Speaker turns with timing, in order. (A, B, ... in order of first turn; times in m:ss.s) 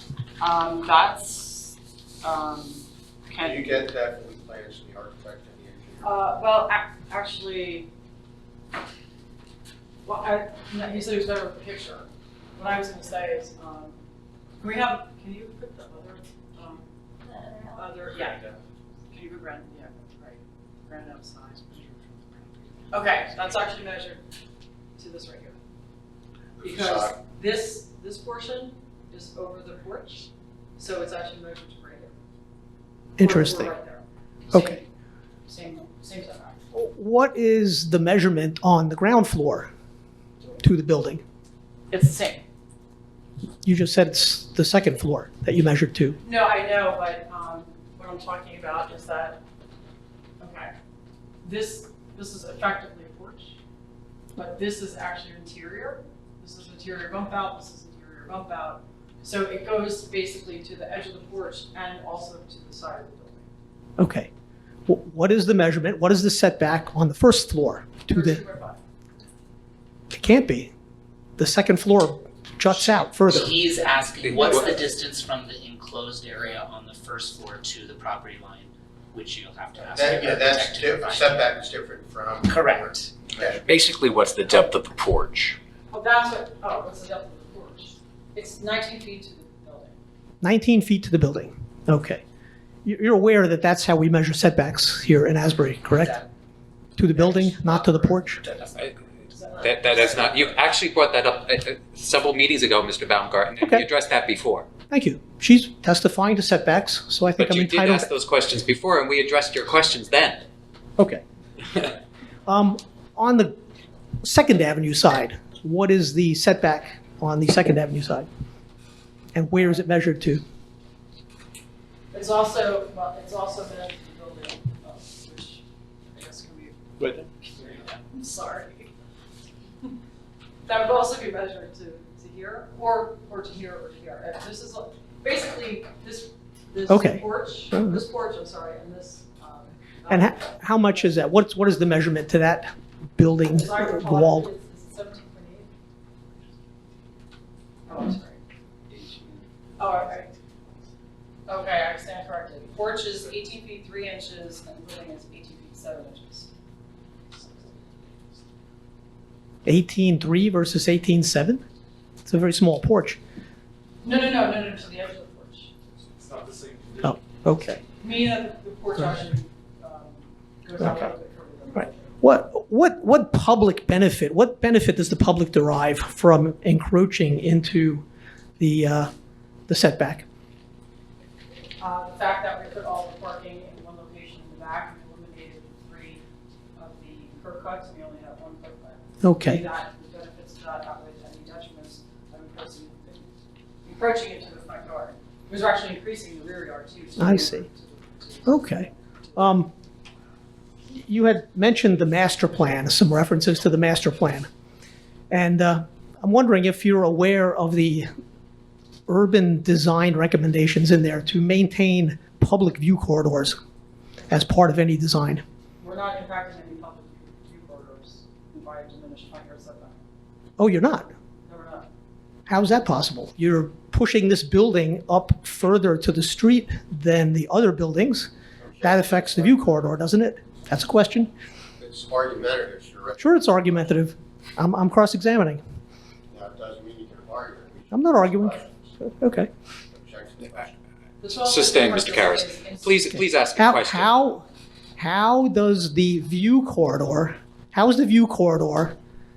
0:00.4-0:03.8 A
0:03.4-0:06.1 B
0:06.0-0:07.9 A
0:10.0-0:14.0 A
0:14.6-0:16.9 A
0:17.7-0:18.4 A
0:19.1-0:24.2 A
0:25.0-0:25.6 A
0:26.6-0:27.1 B
0:26.6-0:30.2 A
0:30.8-0:32.1 A
0:33.2-0:33.7 C
0:33.2-0:34.8 A
0:34.5-0:34.8 C
0:35.5-0:36.6 A
0:36.7-0:39.7 C
0:40.6-0:41.2 C
0:41.9-0:42.4 A
0:43.6-0:46.2 C
0:46.2-0:49.4 A
0:50.4-0:50.7 A
0:51.4-0:53.5 A
0:54.3-1:03.5 A
1:04.0-1:04.3 C
1:04.9-1:08.4 C
1:08.1-1:08.8 A
1:10.1-1:10.7 C
1:11.4-1:13.6 C
1:12.7-1:21.4 D
1:14.2-1:14.6 E
1:19.8-1:23.6 B
1:22.4-1:23.7 D
1:23.8-1:25.6 E
1:23.8-1:25.3 F
1:25.9-1:30.0 A
1:30.4-1:32.2 C
1:32.8-1:36.2 C
1:37.0-1:38.4 C
1:37.2-1:38.8 D
1:38.7-1:39.0 E
1:39.3-1:40.3 A
1:39.6-1:44.7 E
1:43.6-1:43.8 C
1:44.9-1:48.1 C
1:47.4-1:50.4 E
1:51.0-1:51.2 C
1:52.5-1:53.6 C
1:54.2-1:58.3 C
1:59.3-2:00.4 C
2:02.1-2:08.9 A
2:10.6-2:20.6 A
2:16.9-2:18.0 C
2:20.1-2:24.5 C
2:23.5-2:25.7 A
2:27.9-2:30.3 A
2:31.5-2:36.5 A
2:37.3-2:37.9 A
2:39.6-2:41.6 C
2:42.2-2:43.2 C
2:44.0-2:45.7 A
2:46.1-2:47.2 F
2:47.0-2:47.8 C
2:48.0-2:52.1 A
2:50.8-2:51.1 C
2:51.8-2:58.0 C
2:58.6-2:59.1 C
2:59.7-3:00.2 C
3:01.8-3:06.2 A
3:06.8-3:13.3 A
3:09.2-3:09.6 C
3:13.8-3:19.7 A
3:17.2-3:17.6 C
3:18.4-3:19.7 C
3:20.9-3:24.5 C
3:25.3-3:28.1 C
3:29.1-3:33.6 C
3:34.3-3:35.4 C
3:35.8-3:40.0 A
3:40.6-3:41.1 C
3:41.4-3:41.9 A
3:42.5-3:48.3 C
3:48.6-3:49.9 B
3:48.8-3:51.3 C
3:51.8-3:53.7 B
3:53.2-3:55.6 C
3:56.3-3:58.9 B
3:57.9-3:59.5 C
3:59.9-4:00.7 B
4:01.2-4:03.1 A
4:01.3-4:04.1 E
4:03.6-4:04.4 C
4:05.0-4:09.0 C